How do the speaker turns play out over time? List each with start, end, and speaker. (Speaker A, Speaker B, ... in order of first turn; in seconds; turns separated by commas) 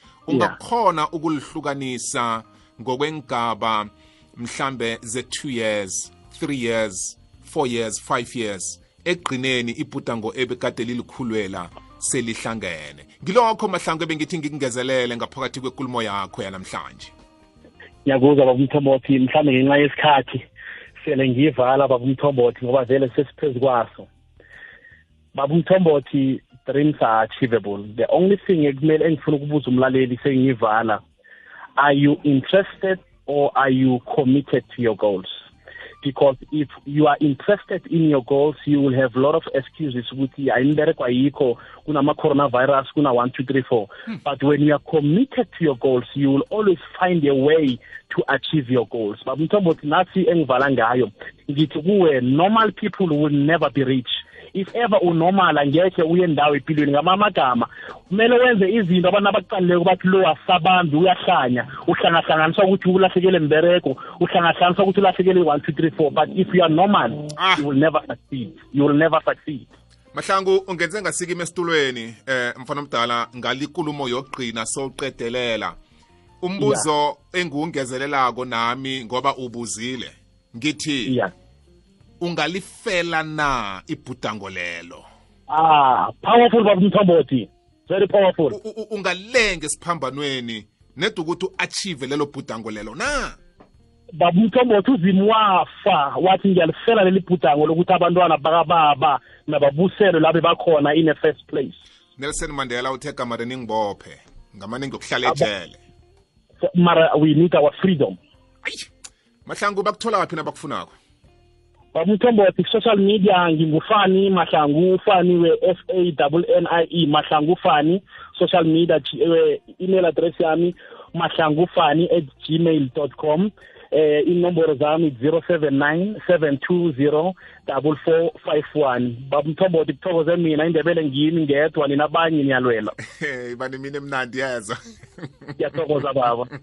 Speaker A: 0.2-17.1, Speaker B: 0.3-0.6, Speaker B: 18.0-20.4, Speaker B: 21.0-24.1, Speaker B: 25.3-31.0, Speaker B: 31.8-35.3, Speaker B: 36.0-69.7, Speaker A: 67.3-67.6, Speaker A: 70.1-75.8, Speaker A: 76.4-81.2, Speaker B: 76.6-76.9, Speaker B: 81.1-81.3, Speaker A: 82.2-85.0, Speaker B: 85.5-88.5, Speaker A: 88.5-93.4, Speaker B: 94.1-101.8, Speaker A: 102.2-105.8, Speaker B: 105.2-105.5, Speaker B: 106.6-108.2, Speaker A: 108.6-108.9, Speaker A: 109.5-110.9, Speaker B: 111.9-132.9, Speaker A: 133.0-135.6, Speaker B: 135.6-136.5